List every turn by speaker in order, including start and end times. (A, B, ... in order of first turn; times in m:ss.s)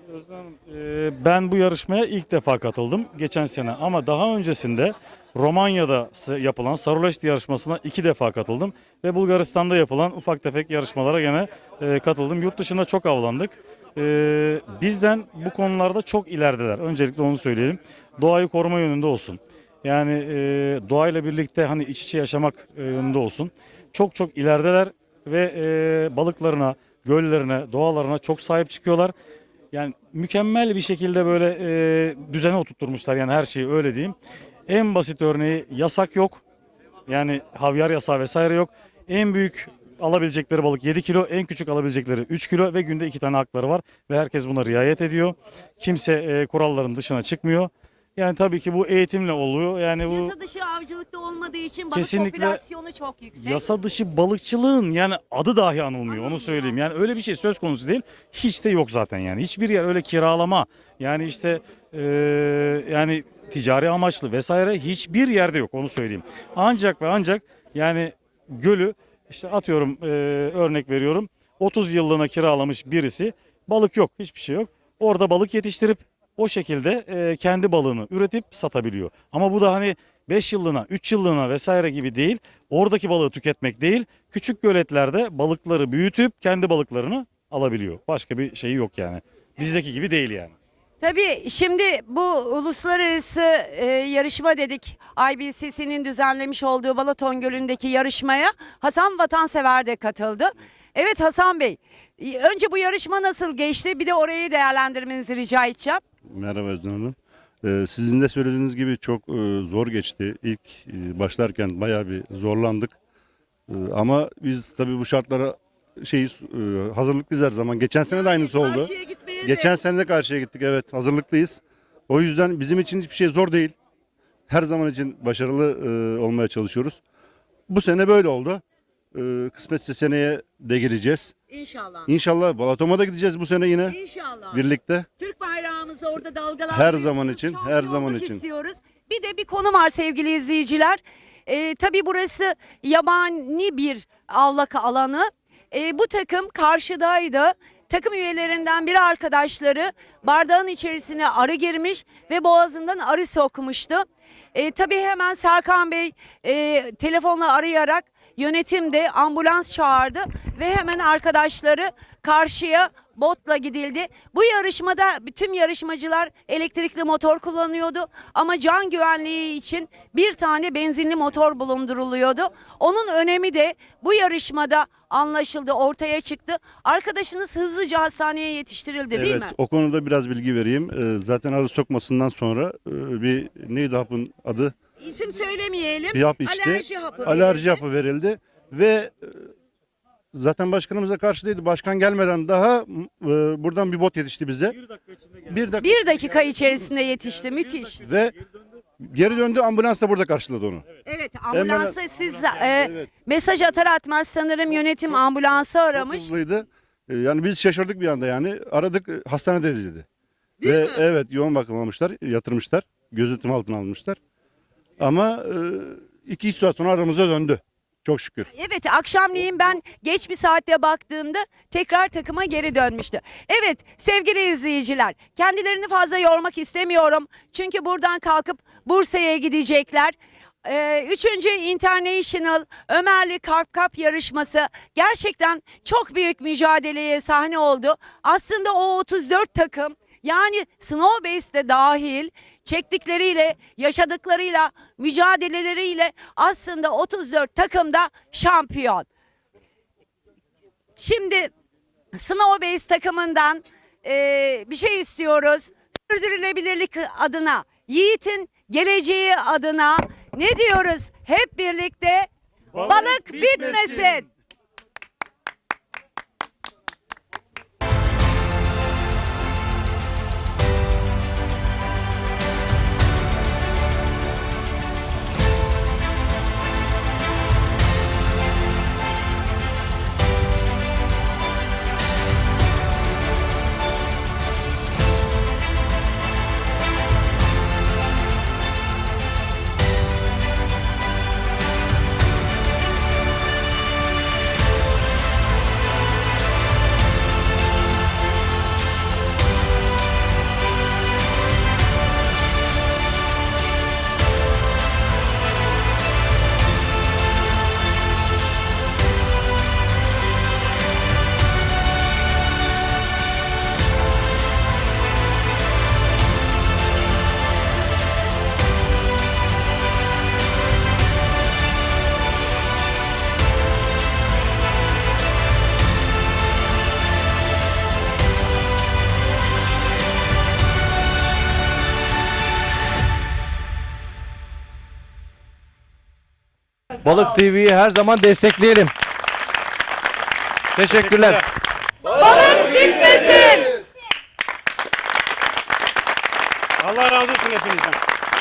0:00.1-0:29.1 A
0:29.7-0:34.2 A
0:34.7-0:36.4 A
0:37.1-0:50.3 A
0:50.1-0:53.6 B
0:51.9-0:52.6 A
0:53.4-1:30.5 A
0:56.1-0:56.8 B
1:31.0-1:46.0 B
1:46.3-1:53.0 C
1:53.7-1:58.9 C
1:58.0-1:59.8 B
1:59.4-2:03.8 C
2:04.5-2:07.0 C
2:07.7-2:08.6 C
2:09.1-2:11.3 C
2:11.5-2:12.1 B
2:12.1-2:14.0 C
2:13.9-2:14.6 B
2:14.5-2:15.1 C
2:15.2-2:34.0 B
2:16.7-2:18.4 C
2:34.6-2:59.5 B
2:59.1-3:04.7 C
3:05.0-3:07.8 B
3:06.1-3:09.4 C
3:10.3-3:14.8 C
3:15.4-3:16.0 C
3:15.8-3:18.0 B
3:18.0-3:18.3 C
3:19.0-3:20.9 C
3:21.0-3:26.3 B
3:21.5-3:22.0 C
3:22.8-3:23.1 C
3:25.9-3:30.1 C
3:30.6-3:31.0 B
3:30.6-3:34.2 C
3:35.0-3:38.5 C
3:38.5-3:50.1 B
3:50.6-4:09.1 B
4:11.0-4:11.5 B
4:12.1-4:22.3 B
4:22.8-4:23.9 C
4:22.8-4:24.3 B
5:37.0-5:38.9 D
5:40.8-5:41.4 D
5:42.4-5:43.7 B